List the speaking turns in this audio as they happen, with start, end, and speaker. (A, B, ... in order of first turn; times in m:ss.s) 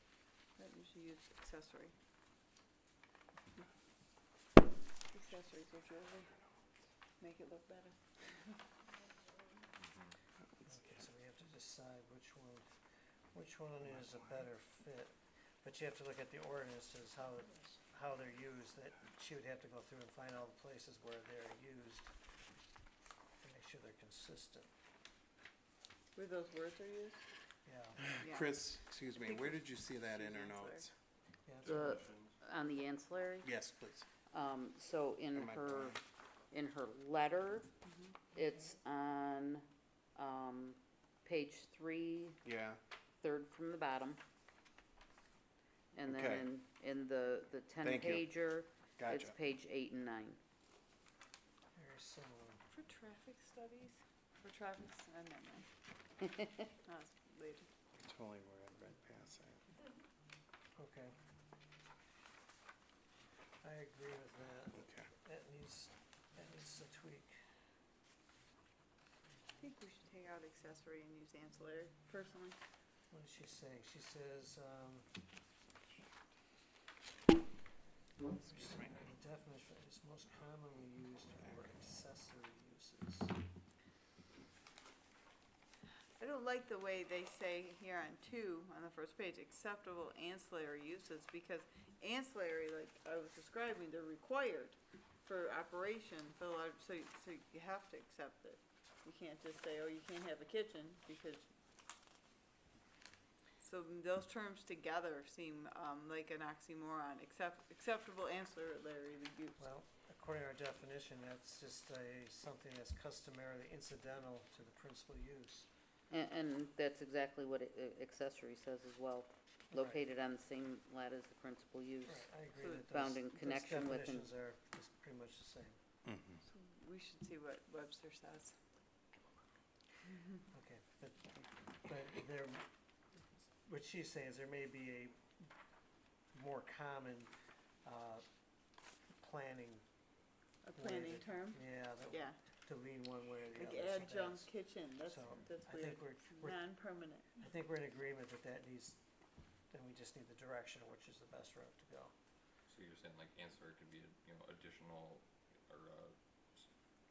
0:00.6-0:01.9 A
0:05.1-0:06.3 A
0:07.2-0:08.6 A
0:10.7-0:12.7 B
0:13.3-0:22.1 B
0:23.4-0:24.7 B
0:26.2-0:27.2 A
0:27.7-0:28.2 B
0:28.0-0:30.9 C
0:28.2-0:28.5 A
0:30.1-0:30.8 A
0:31.5-0:31.9 B
0:31.6-0:32.3 D
0:31.6-0:33.5 E
0:33.4-0:34.1 C
0:34.3-0:36.0 E
0:35.3-0:36.0 C
0:36.5-0:37.7 E
0:38.3-0:42.4 E
0:42.4-0:42.8 C
0:43.2-0:44.2 E
0:46.0-0:50.4 E
0:46.0-0:46.5 C
0:47.8-0:48.3 C
0:49.0-0:49.4 C
0:51.8-0:52.6 B
0:52.7-0:55.7 A
0:56.8-0:57.7 A
0:57.9-0:59.6 C
1:00.8-1:01.1 B
1:03.6-1:07.4 B
1:09.6-1:12.6 A
1:13.1-1:15.1 B
1:18.3-1:23.3 B
1:18.6-1:18.9 C
1:26.2-1:41.4 A
1:43.6-1:49.6 A
1:49.6-1:55.7 B
1:56.1-2:02.3 E
1:59.7-2:00.0 B
2:02.1-2:05.8 B
2:02.6-2:02.8 A
2:02.9-2:04.3 E
2:06.1-2:06.4 C
2:06.4-2:08.5 A
2:10.5-2:12.7 B
2:13.6-2:15.5 B
2:16.3-2:17.3 B
2:17.8-2:18.2 B
2:19.2-2:19.8 B
2:20.6-2:22.4 A
2:20.8-2:24.5 B
2:23.5-2:27.4 A
2:25.1-2:26.6 B
2:27.4-2:29.0 B
2:29.7-2:32.1 B
2:32.7-2:36.7 D